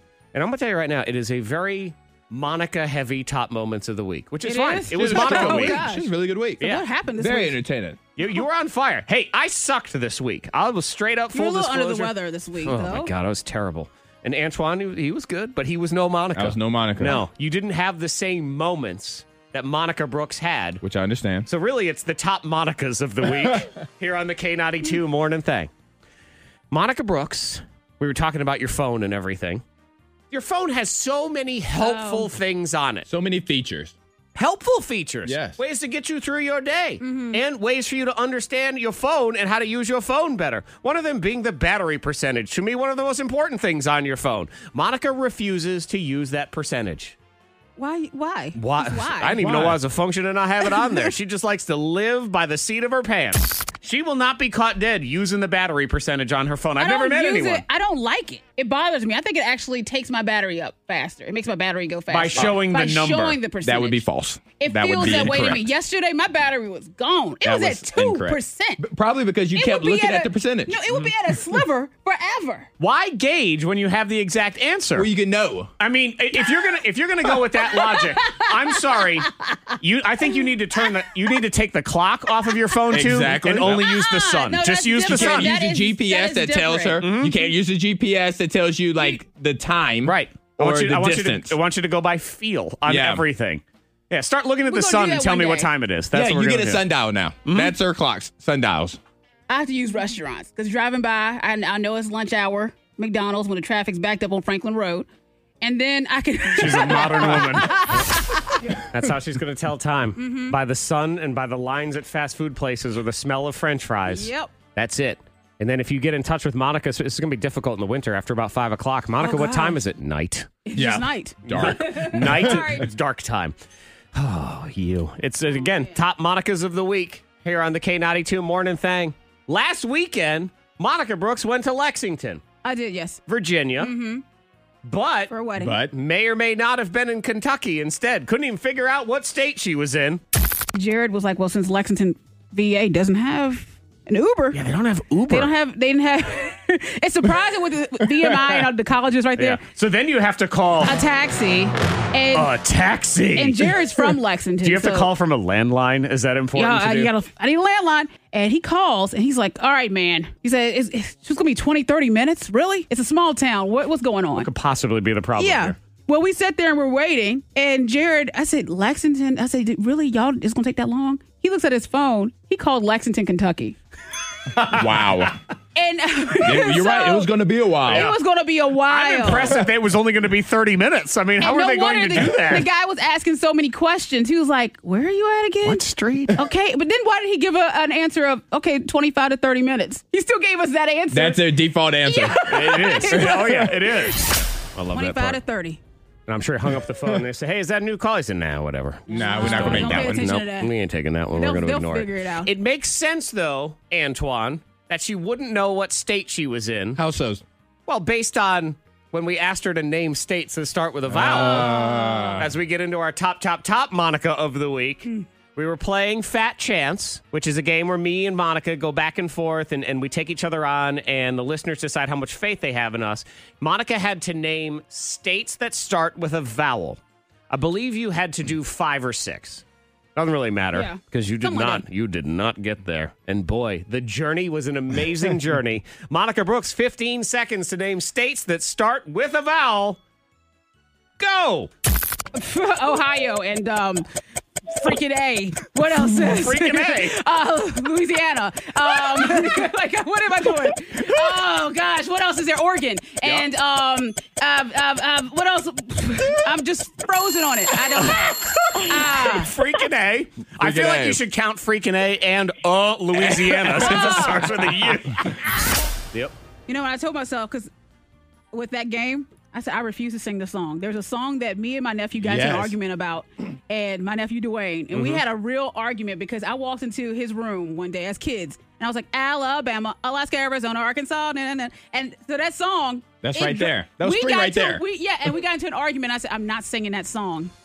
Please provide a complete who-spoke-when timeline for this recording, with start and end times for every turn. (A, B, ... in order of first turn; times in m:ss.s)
0:00.3-0:05.8 A
0:04.4-0:06.1 B
0:04.9-0:06.6 C
0:06.6-0:07.6 B
0:07.2-0:08.0 C
0:08.2-0:20.8 A
0:11.3-0:13.1 B
0:16.4-0:17.2 C
0:20.8-0:21.5 C
0:21.5-0:25.7 A
0:26.7-0:29.6 A
0:30.3-0:33.1 A
0:31.7-0:32.3 B
0:33.1-0:34.0 C
0:34.4-0:47.2 A
0:35.3-0:35.6 C
0:37.0-0:37.4 B
0:47.8-0:49.4 B
0:48.6-0:57.6 A
0:49.4-0:49.8 C
0:50.6-0:51.1 B
0:56.8-1:04.0 B
1:02.1-1:03.4 A
1:03.6-1:05.7 C
1:04.6-1:08.8 B
1:07.4-1:10.8 C
1:09.5-1:12.7 B
1:10.9-1:11.1 A
1:12.8-1:15.1 A
1:15.0-1:15.7 C
1:15.8-1:25.6 A
1:16.4-1:16.8 B
1:17.5-1:19.6 B
1:22.9-1:23.8 C
1:23.6-1:27.1 B
1:25.0-1:31.6 C
1:27.0-1:27.3 A
1:30.0-1:36.8 A
1:32.9-1:33.2 C
1:34.7-1:35.7 B
1:36.1-1:39.0 C
1:37.4-1:37.8 A
1:39.5-1:45.1 B
1:45.6-1:48.8 B
1:46.6-1:48.1 A
1:48.7-2:00.5 A
1:50.2-1:50.6 B
1:54.1-1:54.5 B
1:59.2-1:59.8 B
2:00.7-2:02.9 B
2:00.8-2:02.8 C
2:01.5-2:03.6 A
2:04.1-2:12.4 A
2:05.5-2:06.0 B
2:12.6-2:13.2 B
2:13.3-2:13.9 A
2:13.8-2:14.2 B
2:14.9-2:20.2 A
2:15.3-2:15.8 B
2:15.6-2:15.9 C
2:20.7-2:24.6 B
2:24.5-2:25.5 A
2:25.3-2:29.6 B
2:29.4-2:31.0 A
2:30.8-2:32.5 B
2:32.3-2:37.1 A
2:33.3-2:35.1 B
2:36.6-2:44.5 B
2:44.4-2:45.8 A
2:45.4-2:53.8 B
2:54.5-2:54.9 A
2:54.7-2:55.4 C
2:55.8-2:57.3 B
2:56.4-2:58.1 C
2:57.8-2:59.6 B
2:57.9-2:58.2 A
2:58.9-3:02.7 A
3:01.4-3:05.8 B
3:05.6-3:06.4 A
3:06.4-3:15.8 B
3:11.1-3:13.7 C
3:12.5-3:15.4 A
3:16.3-3:27.0 A
3:19.1-3:20.3 C
3:19.2-3:20.7 B
3:21.3-3:22.5 B
3:27.0-3:27.4 C
3:27.9-3:31.8 A
3:31.1-3:32.5 C
3:31.5-3:32.4 B
3:32.3-3:47.0 A
3:47.5-3:49.6 A
3:50.2-4:00.0 A
3:50.7-3:51.8 B
4:01.2-4:01.7 A
4:02.3-4:04.0 B
4:04.7-4:19.5 B
4:06.1-4:07.2 A
4:18.0-4:25.5 A
4:20.6-4:21.2 C
4:23.2-4:23.8 C
4:23.7-4:24.5 B
4:26.7-4:27.7 B
4:28.5-4:47.5 B
4:32.2-4:32.7 C
4:34.9-4:35.2 A
4:43.2-4:44.8 C